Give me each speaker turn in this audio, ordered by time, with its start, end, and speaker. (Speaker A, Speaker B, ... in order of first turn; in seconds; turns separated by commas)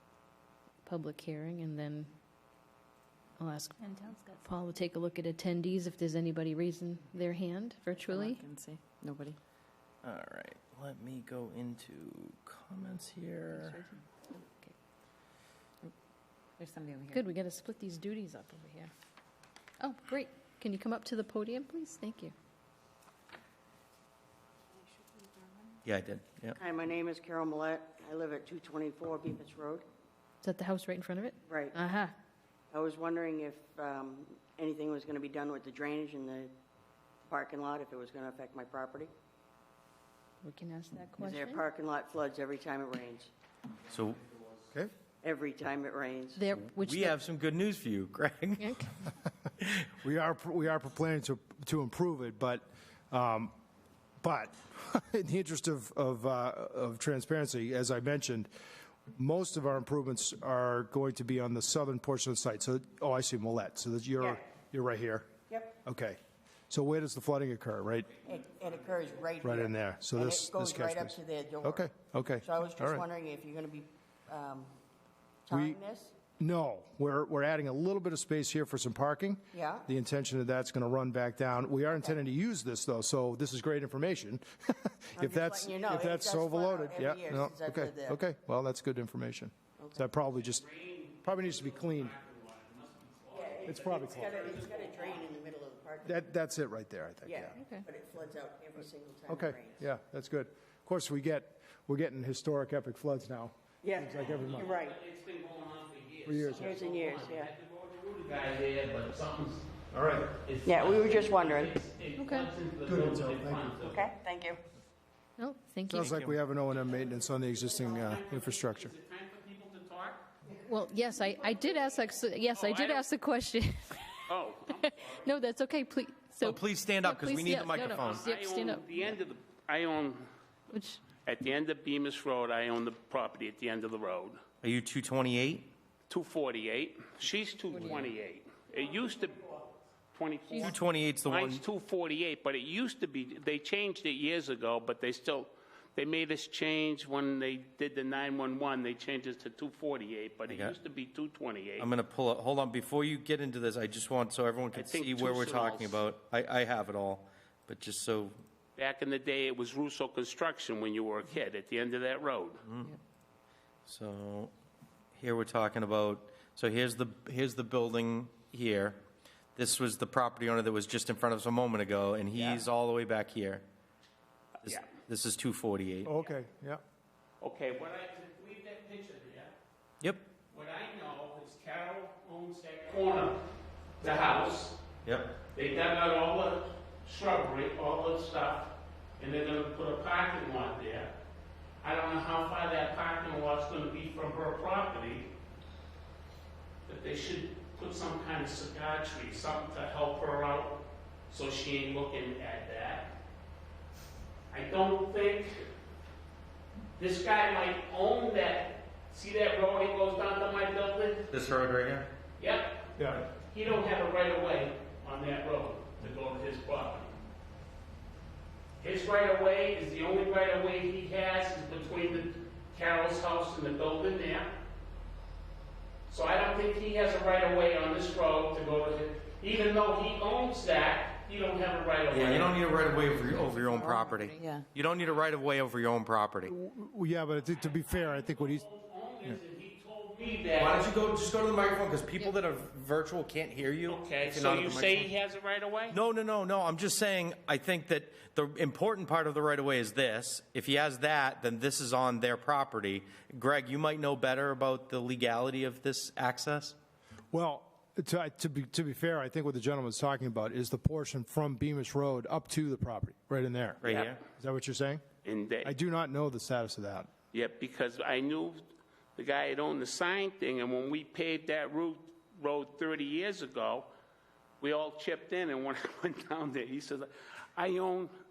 Speaker A: 0.8-2.1, Speaker A: 3.4-8.4, Speaker B: 3.8-4.4, Speaker B: 8.0-9.4, Speaker C: 10.0-13.8, Speaker B: 13.5-14.6, Speaker B: 16.6-17.1, Speaker A: 17.1-18.9, Speaker A: 19.8-22.3, Speaker B: 25.1-25.7, Speaker C: 25.8-26.6, Speaker D: 26.6-29.8, Speaker A: 30.4-32.1, Speaker D: 31.4-31.8, Speaker D: 32.7-36.5, Speaker D: 37.3-39.1, Speaker A: 40.4-41.6, Speaker D: 41.2-43.3, Speaker C: 43.9-44.2, Speaker D: 45.2-46.4, Speaker A: 46.4-47.1, Speaker C: 46.5-48.7, Speaker A: 48.6-48.9, Speaker C: 49.6-49.9, Speaker E: 50.0-53.5, Speaker E: 54.2-58.5, Speaker E: 59.1-65.3, Speaker D: 65.5-65.7, Speaker E: 65.8-68.1, Speaker D: 68.2-71.9, Speaker E: 69.4-73.0, Speaker D: 72.4-74.7, Speaker D: 75.5-76.1, Speaker E: 75.5-75.8, Speaker E: 76.4-90.6, Speaker D: 79.5-79.8, Speaker D: 85.2-88.2, Speaker D: 89.8-90.1, Speaker F: 90.3-95.3, Speaker E: 91.2-92.1, Speaker D: 93.3-96.2, Speaker E: 93.6-94.4, Speaker E: 96.0-97.6, Speaker D: 97.2-99.8, Speaker A: 97.5-97.8, Speaker E: 99.3-104.7, Speaker D: 103.8-105.0, Speaker F: 104.2-109.7, Speaker E: 106.2-106.8, Speaker D: 106.5-107.5, Speaker E: 109.9-110.3, Speaker F: 110.4-114.1, Speaker D: 110.6-111.8, Speaker A: 112.2-112.5, Speaker E: 112.8-113.7, Speaker D: 113.8-114.6, Speaker A: 115.4-116.3, Speaker E: 115.9-118.9, Speaker F: 116.8-120.2, Speaker A: 120.5-124.2, Speaker F: 122.5-123.0, Speaker F: 124.3-125.3, Speaker A: 124.8-128.9, Speaker C: 126.4-128.2, Speaker F: 127.5-130.3, Speaker A: 130.7-131.0, Speaker F: 131.2-134.4, Speaker C: 134.6-135.7, Speaker F: 136.1-151.9, Speaker D: 138.8-139.6, Speaker C: 140.6-141.6, Speaker C: 150.5-150.8, Speaker C: 151.8-158.4, Speaker F: 154.7-156.0, Speaker F: 158.8-162.6, Speaker C: 162.6-163.0, Speaker C: 163.8-164.5, Speaker C: 165.2-169.0, Speaker C: 169.6-173.7, Speaker E: 172.3-172.6, Speaker C: 174.6-176.1, Speaker F: 174.7-174.9, Speaker E: 176.0-176.8, Speaker F: 177.4-179.5, Speaker C: 180.0-180.3, Speaker F: 180.5-183.4, Speaker F: 184.0-184.8, Speaker C: 185.0-185.3, Speaker F: 185.5-191.1, Speaker F: 191.8-195.3, Speaker F: 196.9-200.8, Speaker F: 201.3-203.1, Speaker F: 204.5-205.6, Speaker F: 207.0-211.3, Speaker C: 211.3-212.1, Speaker F: 212.4-212.8, Speaker E: 213.0-213.2, Speaker F: 213.4-217.2, Speaker F: 218.8-224.5, Speaker F: 226.1-232.5, Speaker C: 232.1-236.5, Speaker E: 236.5-238.7, Speaker F: 237.3-240.8, Speaker C: 240.6-245.1, Speaker F: 243.8-246.0, Speaker C: 245.9-256.8, Speaker E: 257.3-263.8, Speaker C: 263.8-264.2, Speaker F: 263.8-264.1, Speaker E: 264.4-265.0, Speaker F: 265.2-265.7, Speaker E: 265.6-267.1, Speaker F: 267.3-268.6, Speaker F: 269.1-273.9, Speaker F: 274.6-278.1